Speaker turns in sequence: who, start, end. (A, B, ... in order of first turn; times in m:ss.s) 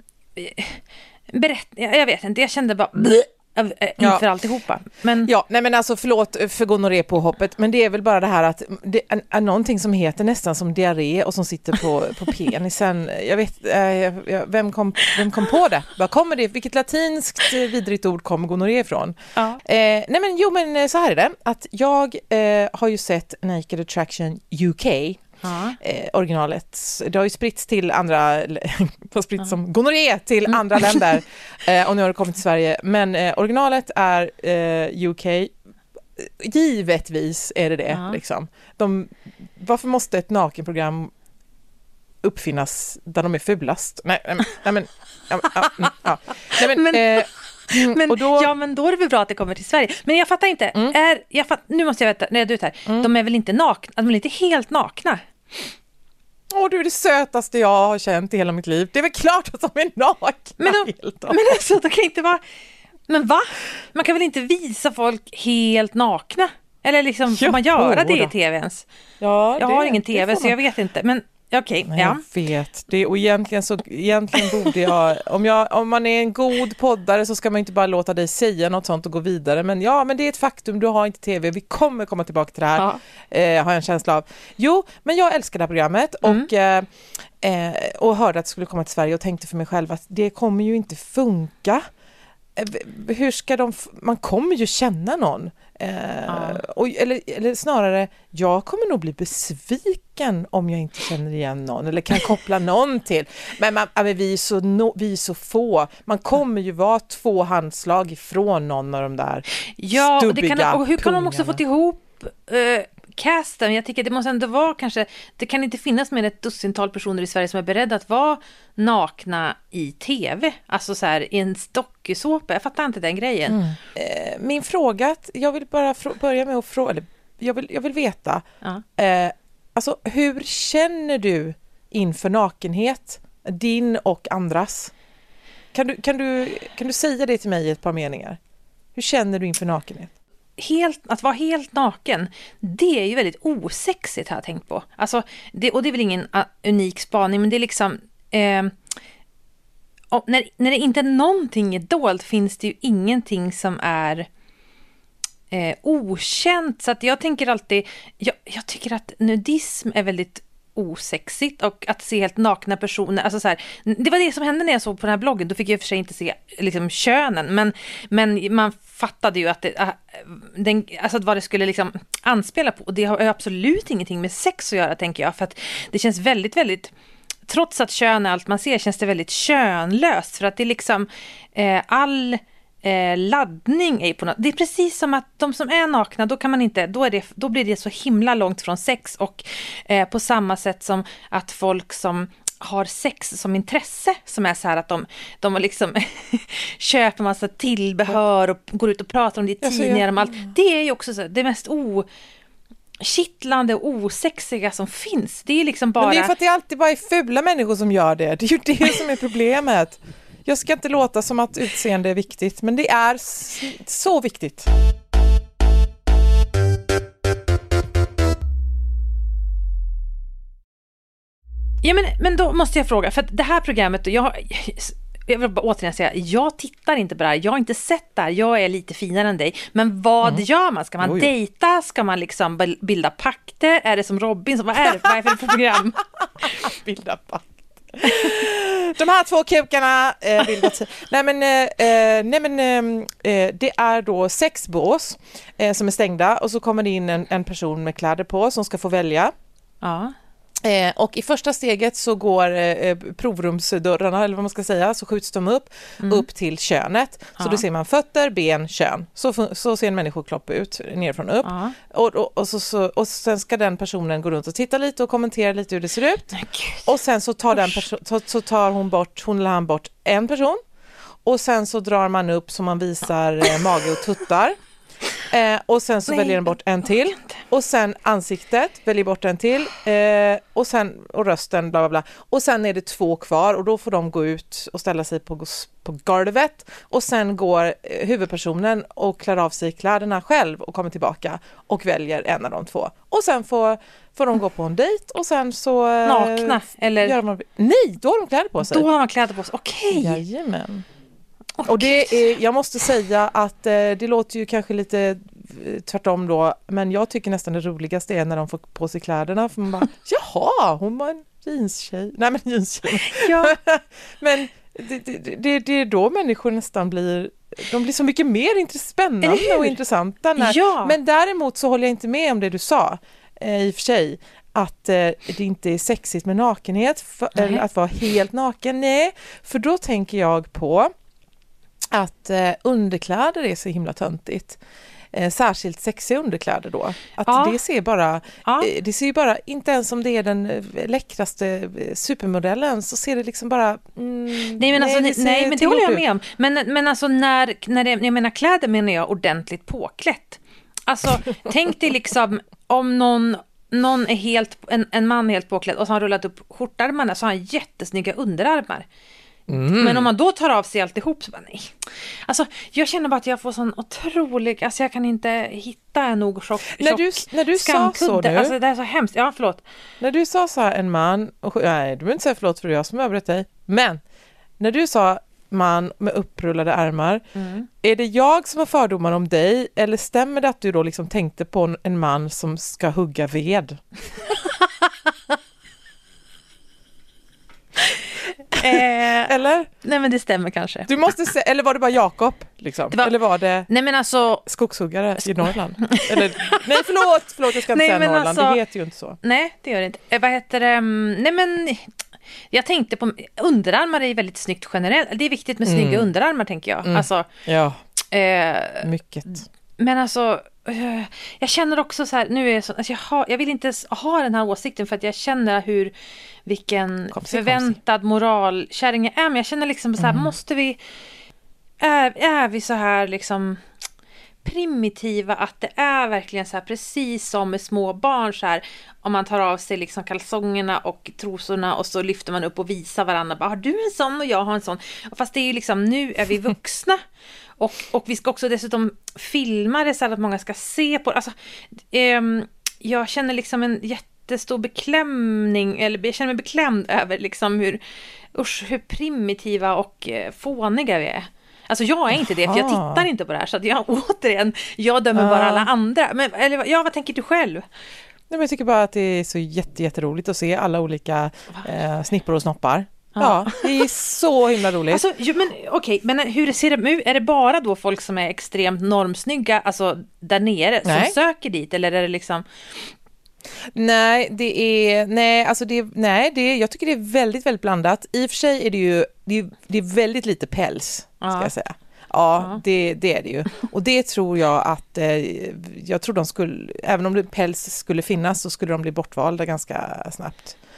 0:00.4-0:05.3 A
0:04.0-0:04.3 B
0:05.2-0:25.2 B
0:19.4-0:19.6 A
0:25.4-0:25.8 A
0:25.8-0:35.5 B
0:36.2-0:41.1 B
0:37.9-0:38.2 A
0:42.2-0:48.5 B
0:46.5-0:55.7 A
0:56.5-1:01.5 B
1:00.6-1:02.4 A
1:03.1-1:08.8 A
1:07.3-1:08.3 B
1:09.2-1:10.6 B
1:09.6-1:12.2 A
1:11.8-1:31.8 B
1:26.2-1:26.5 A
1:32.6-1:51.6 B
1:36.3-1:36.6 A
1:49.8-2:03.6 A
2:03.5-2:08.4 B
2:09.0-2:14.9 B
2:15.7-2:18.4 B
2:18.9-2:20.1 B
2:20.6-2:28.7 A
2:30.1-2:34.3 A
2:35.5-2:56.9 A
2:57.5-3:22.0 A
3:19.6-3:20.5 B
3:23.0-3:26.3 A
3:26.0-3:34.7 B
3:41.8-3:56.6 A
3:51.0-3:51.3 B
3:56.4-4:09.3 B
4:09.8-4:10.1 A
4:10.6-4:26.3 B
4:16.0-4:16.2 A
4:17.4-4:17.6 A
4:21.4-4:21.7 A
4:26.3-4:26.8 A
4:26.8-4:30.6 B
4:31.2-4:34.6 B
4:35.3-4:58.9 B
4:36.1-4:36.5 A
4:56.0-4:57.2 A
4:58.6-5:00.2 A
4:59.9-5:00.8 B
5:01.6-5:02.2 A
5:01.6-5:30.9 B
5:13.0-5:13.6 A
5:19.2-5:19.7 A
5:20.4-5:21.0 A
5:27.3-5:27.6 A
5:31.9-5:34.6 B
5:35.1-5:46.0 B
5:37.2-5:37.6 A
5:38.4-5:38.7 A
5:44.6-5:58.8 A
5:59.5-6:00.1 B
5:59.7-6:09.6 A
6:06.8-6:08.5 B
6:10.0-6:14.0 B
6:14.6-6:17.2 B
6:17.3-6:17.7 A
6:17.8-6:23.8 B
6:28.5-6:29.7 B
6:28.6-6:30.9 A
6:30.8-6:33.7 B
6:33.7-6:34.4 A
6:34.4-6:39.2 B
6:35.2-6:36.8 A
6:37.5-6:38.6 A
6:39.2-6:41.9 A
6:42.5-6:47.3 A
6:45.6-6:46.1 B
6:46.8-6:47.8 B
6:48.1-6:48.9 A
6:48.8-6:49.4 B
6:49.8-6:55.9 A
6:56.4-7:00.8 A
6:57.1-6:57.8 B
7:00.0-7:00.3 B
7:01.8-7:03.6 A
7:04.4-7:17.0 A
7:17.6-7:27.8 A
7:28.3-7:37.6 A
7:32.2-7:33.1 B
7:35.1-7:35.7 B
7:38.3-7:45.0 B
7:43.2-7:43.8 A
7:44.9-7:52.9 A
7:50.8-7:51.1 B
7:53.7-8:10.6 B
8:01.2-8:01.5 A